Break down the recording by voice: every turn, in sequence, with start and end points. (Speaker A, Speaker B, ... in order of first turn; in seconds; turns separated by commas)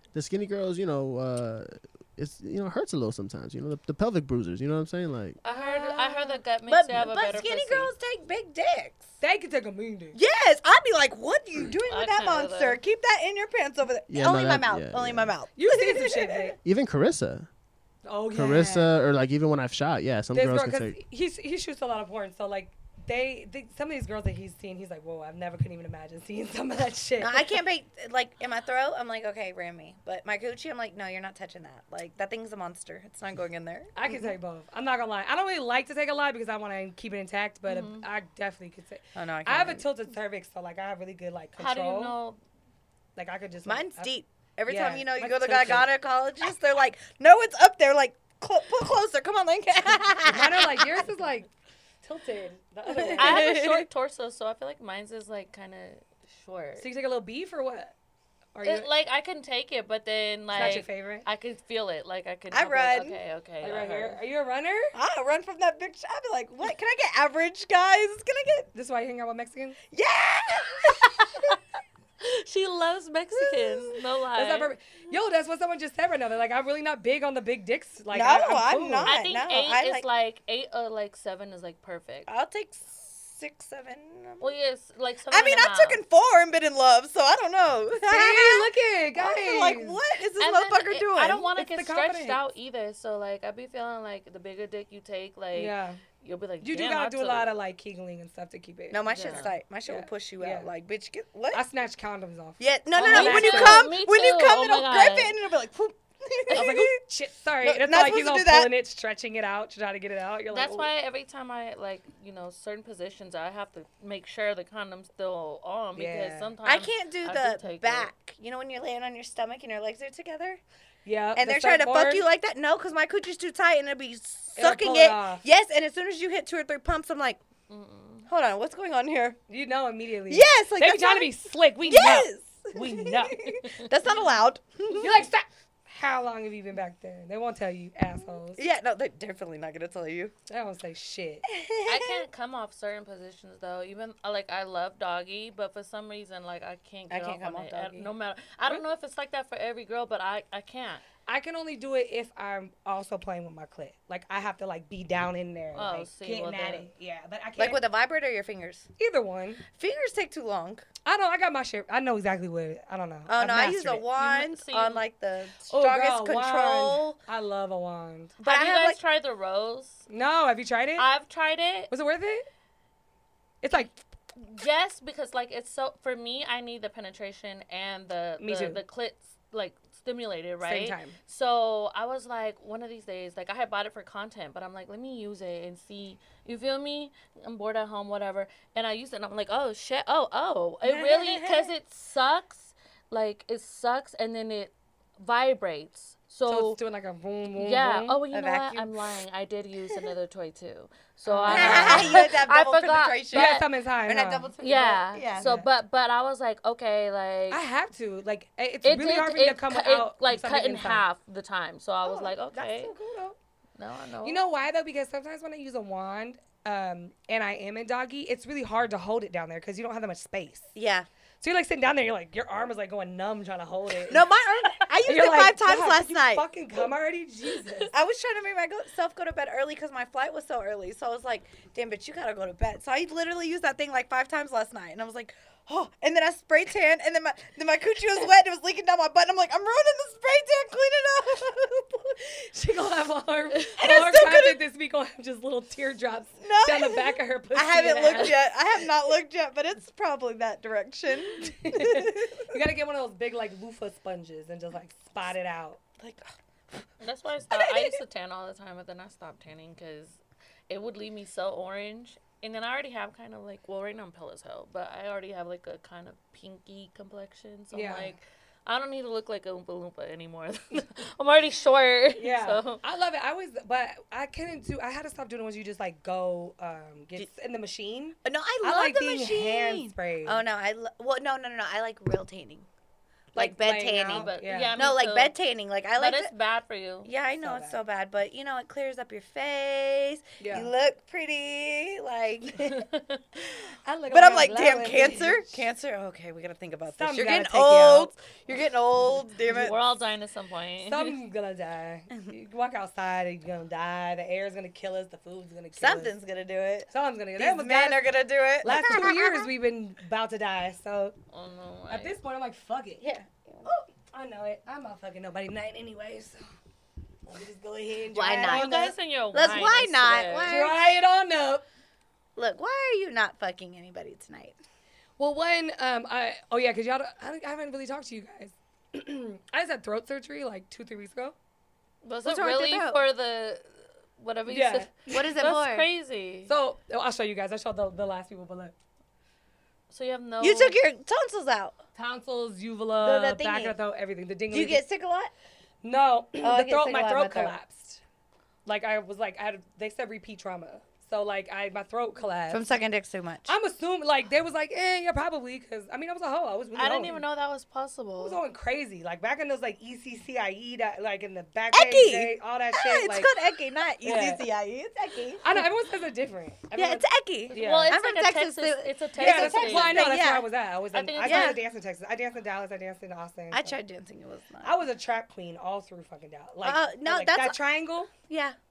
Speaker A: 0.1-5.4, Speaker B: 5.4-6.4, Speaker C: 5.4-7.9, Speaker D: 6.7-9.0, Speaker B: 9.2-10.2, Speaker D: 10.1-16.5, Speaker C: 11.9-12.8, Speaker A: 14.1-15.3, Speaker B: 15.5-16.6, Speaker A: 16.6-17.5, Speaker B: 18.0-18.9, Speaker A: 18.3-21.0, Speaker B: 20.3-27.4, Speaker D: 27.2-34.3, Speaker B: 33.9-42.2, Speaker C: 37.7-38.0, Speaker D: 39.1-39.9, Speaker C: 41.6-42.4, Speaker B: 43.1-44.1, Speaker D: 43.6-50.9, Speaker B: 44.7-45.9, Speaker B: 50.2-51.5, Speaker B: 52.0-53.5, Speaker D: 52.9-53.9, Speaker C: 53.1-56.9, Speaker B: 56.8-57.9, Speaker B: 58.5-58.9, Speaker C: 58.6-64.2, Speaker B: 60.5-61.2, Speaker D: 60.5-60.8, Speaker D: 62.5-63.2, Speaker B: 63.6-64.9, Speaker D: 64.9-68.7, Speaker B: 68.7-69.8, Speaker D: 69.9-71.6, Speaker C: 72.2-74.7, Speaker D: 73.3-73.9, Speaker B: 74.3-79.2, Speaker D: 78.1-80.0, Speaker C: 79.0-82.3, Speaker D: 82.3-84.5, Speaker C: 84.4-86.0, Speaker D: 85.3-91.5, Speaker B: 88.0-90.0, Speaker C: 90.4-97.5, Speaker B: 91.5-92.4, Speaker B: 95.5-96.0, Speaker B: 96.6-99.0, Speaker D: 98.9-101.6, Speaker C: 99.0-99.5, Speaker B: 99.8-100.7, Speaker B: 101.5-103.9, Speaker D: 102.6-106.9, Speaker C: 103.0-105.3, Speaker B: 106.5-110.9, Speaker D: 107.6-108.7, Speaker C: 110.5-118.1, Speaker B: 115.9-116.5, Speaker D: 116.6-120.6, Speaker B: 121.0-122.3, Speaker D: 121.3-127.4, Speaker B: 124.5-125.4, Speaker C: 127.7-128.3, Speaker D: 128.3-129.4, Speaker B: 129.5-133.5, Speaker D: 130.3-135.2, Speaker C: 133.4-133.9, Speaker B: 135.0-138.6, Speaker D: 138.6-140.3, Speaker B: 140.5-141.4, Speaker D: 141.5-142.2, Speaker C: 141.8-151.0, Speaker D: 147.1-148.1, Speaker B: 151.3-157.8, Speaker C: 155.7-156.8, Speaker D: 157.6-158.9, Speaker B: 159.0-159.6, Speaker D: 159.7-160.8, Speaker B: 161.0-164.0, Speaker D: 163.3-167.2, Speaker C: 164.2-165.0, Speaker B: 165.7-168.4, Speaker D: 168.4-169.0, Speaker C: 168.4-170.0, Speaker B: 170.1-171.1, Speaker C: 171.0-171.9, Speaker B: 171.9-172.4, Speaker B: 173.6-174.0, Speaker C: 174.4-196.8, Speaker B: 178.4-178.8, Speaker B: 180.6-181.2, Speaker D: 190.8-191.7, Speaker B: 196.4-198.2, Speaker C: 197.5-203.7, Speaker D: 198.3-199.2, Speaker B: 201.2-202.2, Speaker D: 201.5-205.5, Speaker B: 203.3-204.5, Speaker C: 204.6-207.6, Speaker B: 205.4-205.7, Speaker B: 207.5-211.0, Speaker C: 208.8-212.9, Speaker B: 212.0-213.4, Speaker C: 213.8-214.4, Speaker B: 214.2-220.7, Speaker D: 220.7-221.1, Speaker B: 221.4-224.3, Speaker D: 224.1-226.5, Speaker B: 224.8-227.9, Speaker D: 227.9-242.2, Speaker B: 242.5-248.4, Speaker D: 243.8-244.6, Speaker D: 246.4-252.6, Speaker B: 251.4-255.8, Speaker D: 256.0-256.9, Speaker C: 257.0-260.2, Speaker D: 257.5-258.0, Speaker C: 260.7-272.8, Speaker B: 267.7-268.1, Speaker B: 272.2-280.4, Speaker D: 278.2-282.7, Speaker B: 283.3-284.8, Speaker D: 283.3-286.3, Speaker C: 284.1-285.4, Speaker C: 285.9-287.1, Speaker D: 287.0-292.9, Speaker B: 287.4-287.8, Speaker B: 290.4-290.7, Speaker C: 292.6-293.2, Speaker B: 293.8-295.6, Speaker D: 294.1-299.8, Speaker B: 296.9-298.1, Speaker C: 299.5-301.1, Speaker B: 300.8-306.1, Speaker D: 305.7-309.5, Speaker B: 306.9-308.0, Speaker B: 308.6-311.1, Speaker C: 311.3-312.2, Speaker B: 311.9-313.0, Speaker D: 313.0-313.7, Speaker B: 313.7-316.4, Speaker B: 317.3-318.9, Speaker D: 318.1-321.0, Speaker C: 318.4-320.6, Speaker B: 320.4-321.6, Speaker D: 322.4-324.6, Speaker B: 325.2-331.3, Speaker C: 332.0-333.7, Speaker D: 332.2-333.0, Speaker C: 334.2-336.5, Speaker B: 334.5-335.4, Speaker D: 335.1-335.9, Speaker B: 336.4-338.7, Speaker C: 339.9-340.8, Speaker D: 340.4-341.8, Speaker B: 341.9-344.8, Speaker D: 343.0-343.8, Speaker D: 344.5-345.3, Speaker B: 345.8-348.0, Speaker D: 346.4-347.5, Speaker B: 348.6-352.7, Speaker D: 352.5-353.5, Speaker B: 353.4-357.2, Speaker C: 356.7-358.4, Speaker B: 358.2-363.3, Speaker D: 361.7-365.6, Speaker B: 364.0-364.4, Speaker B: 365.4-367.9, Speaker D: 366.7-370.5, Speaker C: 367.5-370.2, Speaker B: 369.2-373.8, Speaker C: 370.9-371.6, Speaker D: 371.2-371.6, Speaker D: 373.5-374.7, Speaker B: 374.6-378.1, Speaker D: 376.6-377.6, Speaker D: 378.3-378.6